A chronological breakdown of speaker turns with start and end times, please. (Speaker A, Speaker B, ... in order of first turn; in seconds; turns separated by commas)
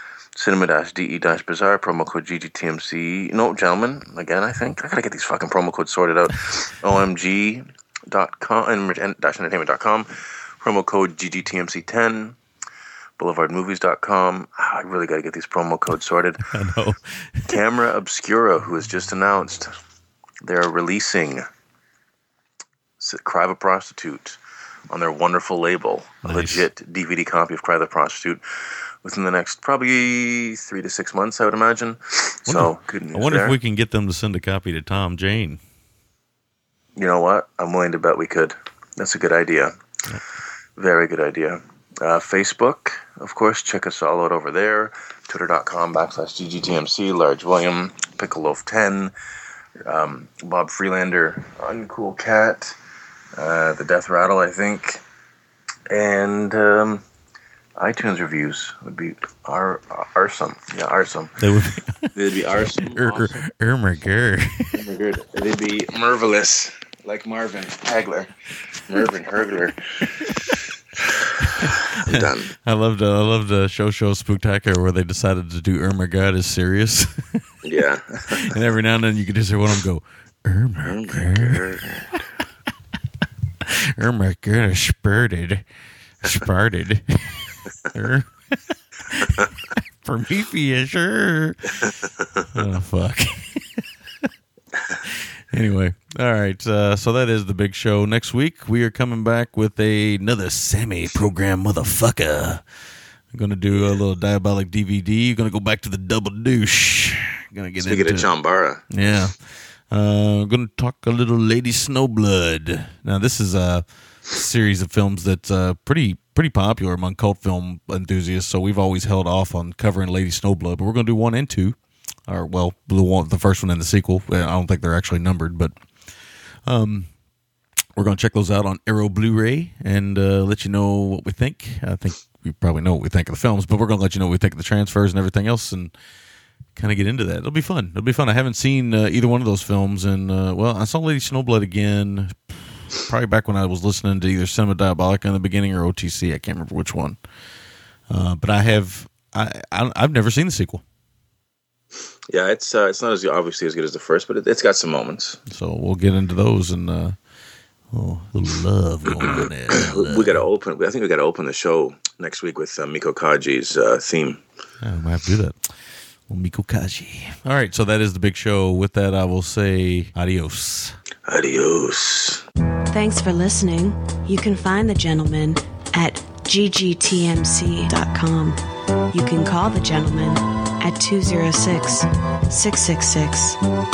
Speaker A: 0.3-12.4, Speaker A: 13.2-16.4, Speaker B: 16.4-17.5, Speaker A: 17.4-19.8, Speaker A: 20.4-21.5, Speaker A: 23.0-24.4, Speaker A: 24.9-28.4, Speaker B: 26.2-26.6, Speaker A: 29.0-33.6, Speaker B: 32.5-35.6, Speaker A: 37.0-39.8, Speaker A: 40.8-49.1, Speaker A: 49.8-52.8, Speaker A: 53.3-55.0, Speaker A: 55.9-57.0, Speaker A: 57.8-61.4, Speaker B: 61.4-64.8, Speaker A: 62.1-63.4, Speaker A: 64.7-70.3, Speaker A: 71.4-72.5, Speaker B: 72.1-77.4, Speaker A: 77.6-78.5, Speaker B: 78.3-81.8, Speaker A: 80.8-82.2, Speaker B: 83.6-85.6, Speaker B: 86.2-91.6, Speaker A: 91.8-92.4, Speaker B: 92.5-94.3, Speaker B: 95.0-102.6, Speaker B: 103.3-108.3, Speaker A: 107.8-108.8, Speaker B: 108.9-125.8, Speaker B: 126.6-127.1, Speaker B: 128.0-135.9, Speaker B: 136.7-147.2, Speaker B: 148.1-150.8, Speaker A: 152.3-155.4, Speaker B: 155.5-157.2, Speaker B: 157.9-160.4, Speaker A: 159.8-164.4, Speaker B: 164.8-165.7, Speaker B: 166.3-171.0, Speaker A: 171.2-172.4, Speaker C: 172.9-178.6, Speaker C: 179.1-183.6